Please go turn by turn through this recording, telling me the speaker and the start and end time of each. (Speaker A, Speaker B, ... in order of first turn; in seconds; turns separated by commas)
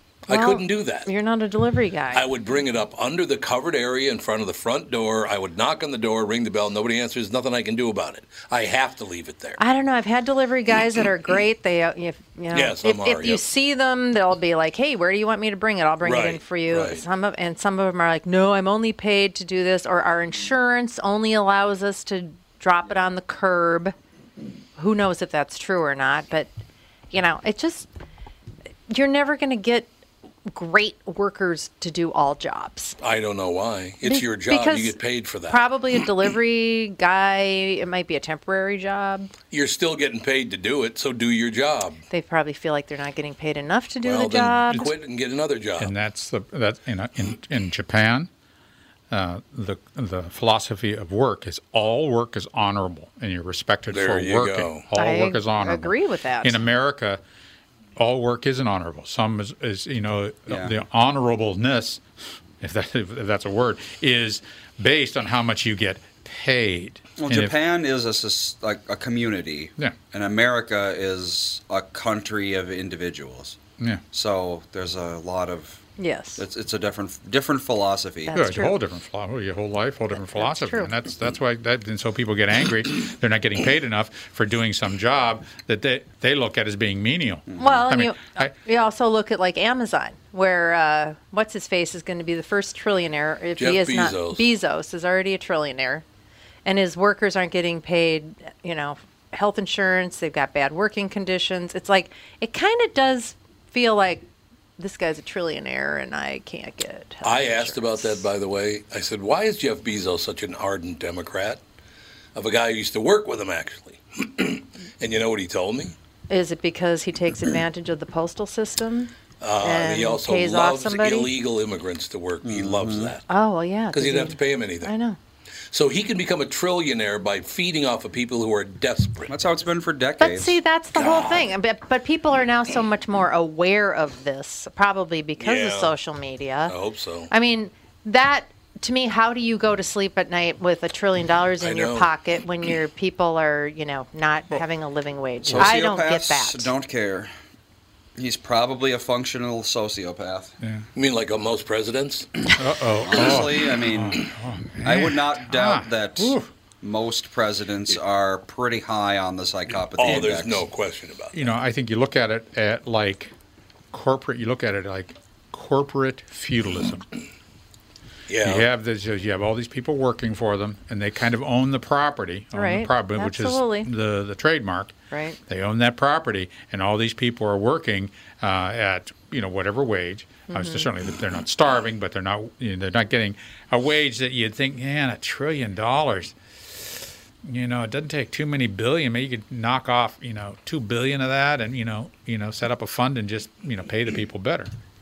Speaker A: 0.3-1.1, Speaker B: 0.3-2.3, Speaker A: 2.1-9.6, Speaker B: 9.6-23.9, Speaker A: 12.5-13.4, Speaker A: 16.0-17.0, Speaker B: 24.8-26.5, Speaker B: 27.1-27.9, Speaker B: 28.9-29.9, Speaker B: 30.5-33.0, Speaker A: 33.0-35.7, Speaker B: 34.0-39.3, Speaker A: 39.5-42.0, Speaker B: 42.1-44.9, Speaker A: 44.0-45.9, Speaker C: 45.8-48.3, Speaker C: 49.1-57.2, Speaker A: 53.9-54.9, Speaker B: 55.0-56.6, Speaker C: 58.0-62.0, Speaker D: 60.5-60.7, Speaker C: 62.6-67.5, Speaker D: 67.2-73.6, Speaker D: 74.1-78.3, Speaker B: 76.0-76.4, Speaker B: 78.3-78.8, Speaker C: 78.3-88.5, Speaker B: 80.1-80.9, Speaker D: 87.5-87.8, Speaker B: 87.6-96.0, Speaker A: 93.6-94.5, Speaker B: 96.7-104.3, Speaker B: 104.8-108.3, Speaker A: 107.2-111.6, Speaker A: 112.3-116.0, Speaker B: 116.3-121.3, Speaker A: 119.4-123.2, Speaker D: 122.4-123.1, Speaker B: 123.3-125.2, Speaker A: 123.9-124.9, Speaker A: 125.7-129.3, Speaker D: 129.3-130.6, Speaker B: 130.2-136.8, Speaker A: 131.0-131.5, Speaker A: 135.4-135.9, Speaker A: 136.7-137.3, Speaker B: 137.3-146.7, Speaker A: 141.6-142.1, Speaker D: 145.6-147.3, Speaker D: 148.2-150.6, Speaker C: 150.6-150.9, Speaker A: 150.9-152.6, Speaker C: 152.6-156.5, Speaker D: 153.0-154.3, Speaker D: 154.8-160.7, Speaker A: 159.9-161.5, Speaker C: 161.3-163.3, Speaker C: 163.9-167.1, Speaker A: 168.3-168.7, Speaker C: 168.4-194.7, Speaker B: 172.5-173.9, Speaker B: 175.1-175.4, Speaker B: 180.5-180.9